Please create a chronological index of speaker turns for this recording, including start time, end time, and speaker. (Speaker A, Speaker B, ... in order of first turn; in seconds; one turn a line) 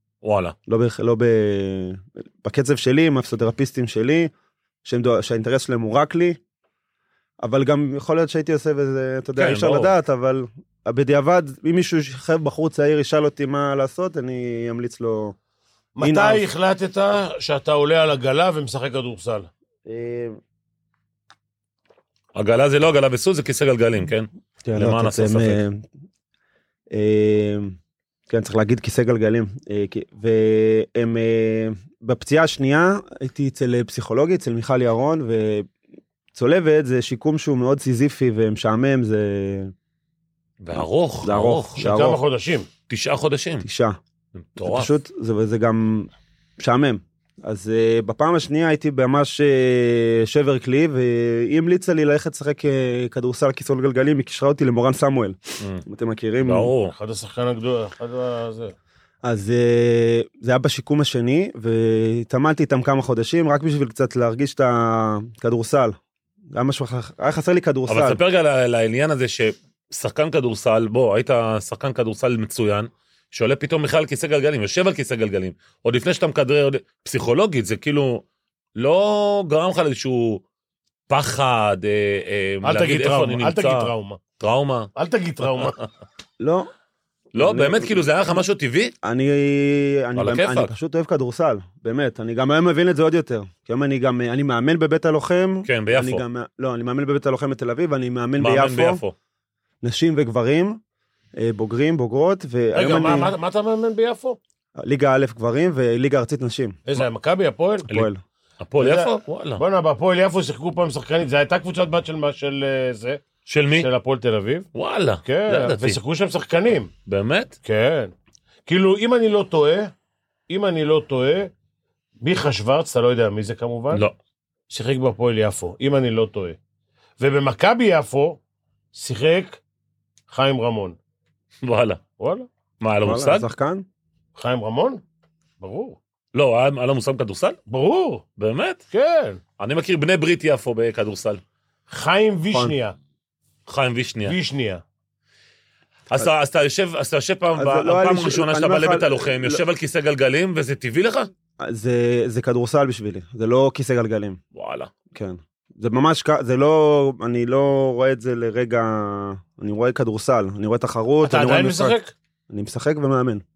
Speaker A: 0.2-0.5
Speaker B: 0.7-4.3
Speaker B: 4.8-6.4
Speaker B: 7.4-15.3
Speaker A: 9.3-9.9
Speaker C: 16.0-19.5
Speaker B: 16.0-16.4
Speaker B: 19.8-20.4
Speaker A: 22.3-25.6
Speaker B: 24.6-25.8
Speaker B: 26.9-27.8
Speaker B: 28.3-35.7
Speaker B: 36.3-39.7
Speaker A: 40.6-41.8
Speaker B: 40.8-42.2
Speaker C: 41.8-42.7
Speaker A: 42.9-43.6
Speaker B: 43.6-44.0
Speaker A: 44.3-44.9
Speaker B: 44.6-56.7
Speaker A: 56.4-56.9
Speaker C: 56.9-58.7
Speaker B: 59.2-65.9
Speaker B: 66.5-68.2
Speaker A: 67.9-78.2
Speaker A: 78.8-80.4
Speaker A: 81.1-84.9
Speaker C: 82.6-84.2
Speaker C: 85.0-85.8
Speaker B: 86.4-86.7
Speaker A: 87.3-88.9
Speaker B: 87.3-88.0
Speaker B: 89.0-99.0
Speaker A: 90.2-90.7
Speaker A: 95.6-96.2
Speaker A: 98.4-99.1
Speaker B: 99.8-100.8
Speaker B: 101.4-103.3
Speaker C: 102.7-104.4
Speaker B: 104.8-106.8
Speaker C: 106.8-107.9
Speaker B: 107.9-108.2
Speaker A: 108.6-109.6
Speaker C: 108.8-113.2
Speaker A: 113.5-113.9
Speaker C: 113.7-114.7
Speaker A: 114.7-116.0
Speaker C: 115.2-116.9
Speaker A: 117.0-117.5
Speaker C: 117.6-118.1
Speaker C: 118.7-119.9
Speaker C: 120.5-121.5
Speaker C: 122.2-124.0
Speaker C: 124.7-126.6
Speaker C: 127.2-128.4
Speaker C: 128.9-129.6
Speaker C: 130.3-131.0
Speaker A: 131.6-132.0
Speaker C: 132.2-132.5
Speaker A: 132.8-133.5
Speaker B: 133.0-133.8
Speaker C: 134.3-135.0
Speaker C: 135.6-136.0
Speaker A: 136.3-137.6
Speaker C: 137.7-138.2
Speaker A: 138.4-138.8
Speaker C: 138.9-139.4
Speaker A: 139.6-141.4
Speaker C: 141.9-142.9
Speaker A: 143.7-144.3
Speaker C: 144.2-144.8
Speaker A: 146.1-151.3
Speaker B: 147.5-149.6
Speaker B: 151.6-154.4
Speaker A: 154.5-154.9
Speaker B: 155.1-162.0
Speaker C: 161.2-162.1
Speaker B: 162.5-163.4